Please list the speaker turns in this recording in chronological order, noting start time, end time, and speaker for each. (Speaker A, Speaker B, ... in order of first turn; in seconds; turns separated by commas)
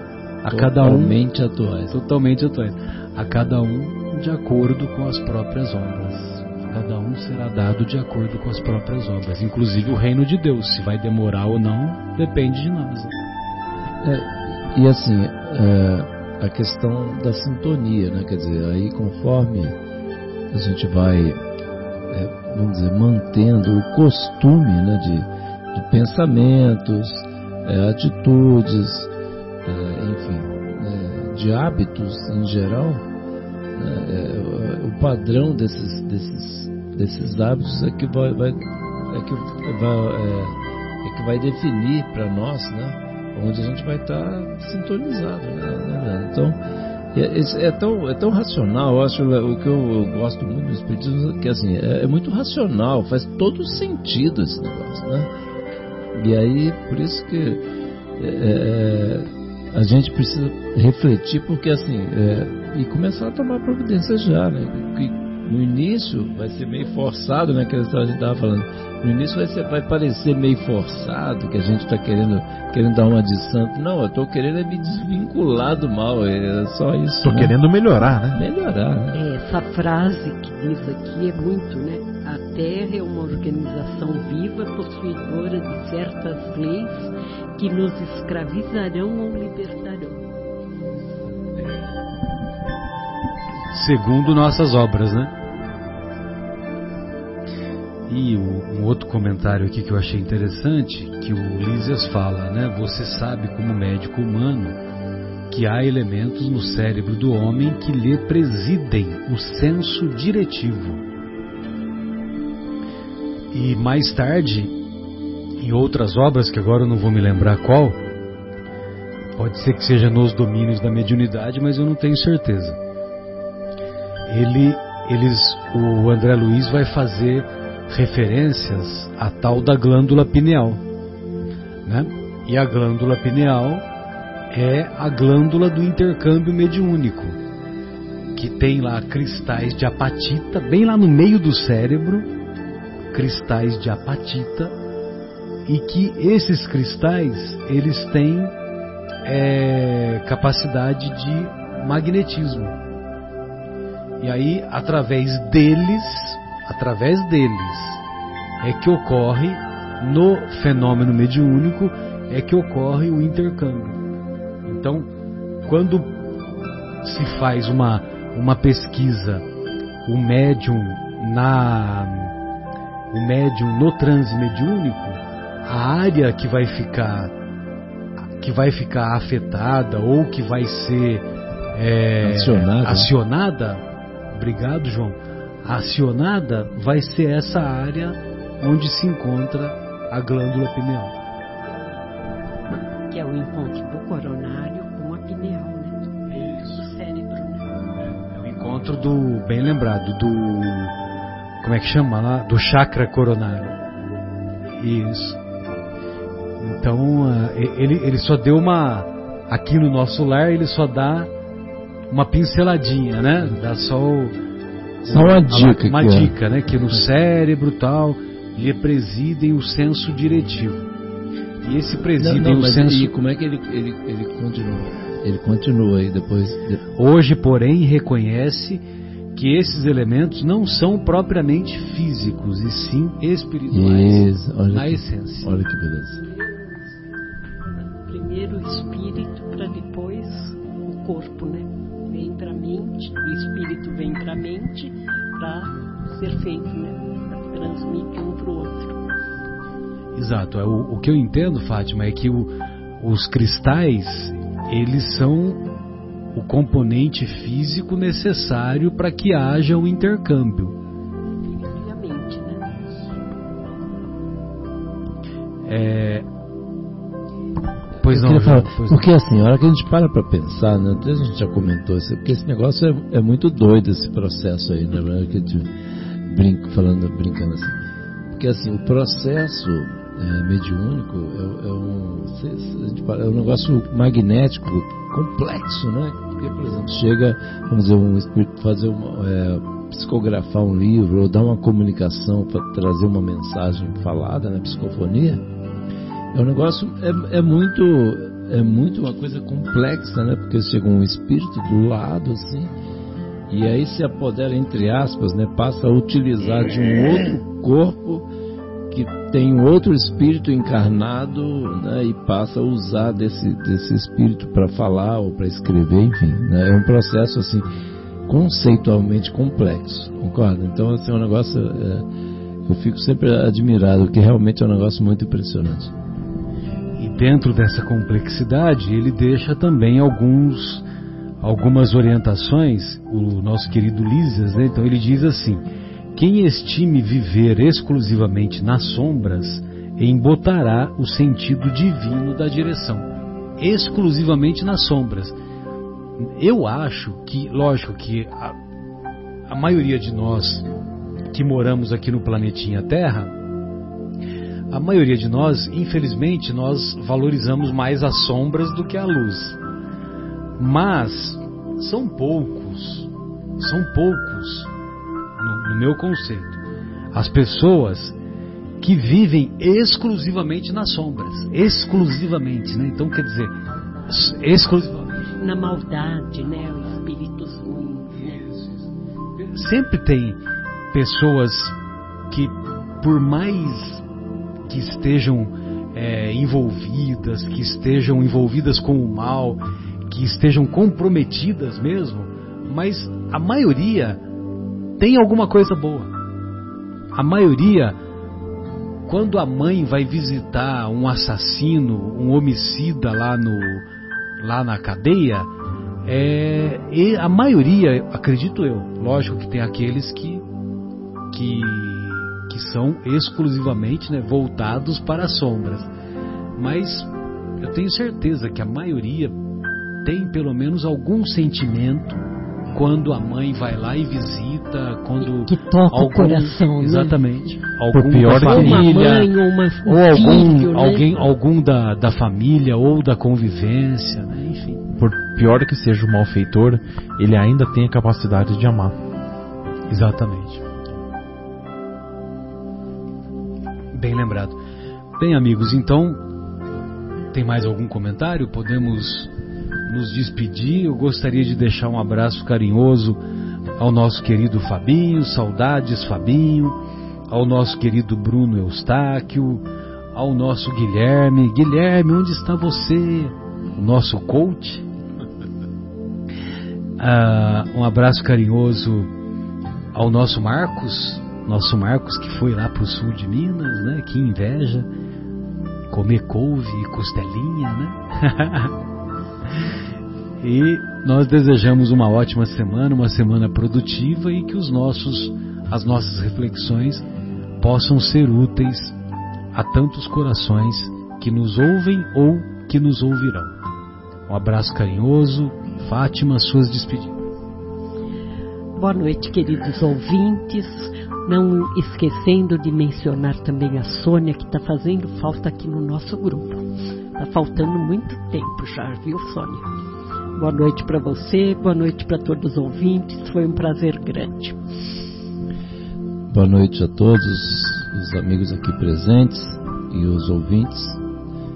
Speaker A: 0.4-1.2, Speaker B: 0.5-1.9, Speaker A: 1.9-13.2, Speaker B: 14.0-19.8, Speaker B: 20.5-21.4, Speaker B: 22.1-29.1, Speaker B: 29.6-33.0, Speaker B: 33.8-46.5, Speaker B: 47.1-55.3, Speaker B: 56.1-57.6, Speaker B: 58.2-77.5, Speaker C: 77.2-78.4, Speaker B: 78.3-79.2, Speaker D: 79.1-90.2, Speaker A: 93.7-95.3, Speaker A: 98.1-104.8, Speaker A: 105.5-111.0, Speaker A: 113.5-114.8, Speaker A: 115.6-118.0, Speaker A: 119.4-122.8, Speaker A: 124.3-130.8, Speaker A: 131.8-133.8, Speaker A: 134.5-137.4, Speaker A: 138.3-142.3, Speaker A: 143.1-144.7, Speaker A: 145.7-148.5, Speaker A: 149.2-152.8, Speaker A: 154.2-158.0, Speaker A: 158.6-164.0, Speaker A: 164.6-165.1, Speaker A: 165.6-166.1, Speaker A: 167.0-169.4, Speaker A: 170.1-172.3, Speaker A: 173.1-177.3, Speaker A: 178.4-191.1, Speaker B: 182.2-183.1, Speaker D: 193.1-197.8, Speaker A: 196.3-196.8, Speaker A: 198.1-200.9, Speaker A: 201.6-203.8, Speaker A: 204.7-205.4, Speaker A: 206.6-211.3, Speaker A: 212.1-214.3, Speaker A: 215.0-220.9, Speaker B: 215.1-216.3, Speaker A: 221.6-223.1, Speaker B: 222.2-226.8, Speaker A: 226.9-235.5, Speaker B: 233.7-236.2, Speaker D: 236.2-236.9, Speaker D: 237.8-249.0, Speaker A: 250.2-255.6, Speaker A: 256.3-260.8, Speaker D: 261.4-262.7, Speaker A: 265.6-266.2, Speaker A: 268.0-269.1, Speaker B: 268.0-275.7, Speaker B: 276.2-277.8, Speaker B: 278.3-295.4, Speaker B: 296.3-302.7, Speaker B: 303.5-308.3, Speaker B: 308.9-317.6, Speaker B: 318.3-322.1, Speaker B: 322.6-325.9, Speaker A: 327.0-330.9, Speaker A: 331.4-343.1, Speaker A: 343.6-345.4, Speaker A: 346.2-348.6, Speaker A: 349.5-350.7, Speaker A: 351.3-353.3, Speaker A: 354.7-359.6, Speaker A: 360.6-364.7, Speaker A: 365.4-366.6, Speaker A: 367.1-368.2, Speaker A: 368.8-373.5, Speaker A: 374.1-375.2, Speaker D: 375.3-378.5, Speaker A: 379.4-380.4, Speaker A: 380.9-381.8, Speaker A: 382.3-384.0, Speaker A: 384.7-394.2, Speaker A: 395.0-396.1, Speaker A: 397.1-398.0, Speaker A: 399.1-403.9, Speaker A: 404.4-405.5, Speaker A: 406.1-410.4, Speaker A: 411.3-415.9, Speaker A: 416.6-419.3, Speaker A: 420.0-422.2, Speaker A: 422.7-429.3, Speaker D: 425.2-427.5, Speaker C: 427.9-428.9, Speaker D: 428.2-431.1, Speaker A: 429.8-434.8, Speaker C: 434.9-438.9, Speaker A: 439.9-440.6, Speaker A: 443.9-444.6, Speaker A: 445.2-446.2, Speaker A: 447.3-449.3, Speaker A: 449.9-453.2, Speaker A: 453.8-456.8, Speaker A: 457.3-464.9, Speaker A: 467.0-469.1, Speaker A: 469.9-474.9, Speaker A: 475.9-478.7, Speaker A: 480.4-487.1, Speaker A: 487.6-489.0, Speaker A: 489.5-493.5, Speaker A: 494.3-497.1, Speaker D: 498.8-506.6, Speaker D: 507.1-509.6, Speaker D: 510.4-514.6, Speaker B: 516.3-521.0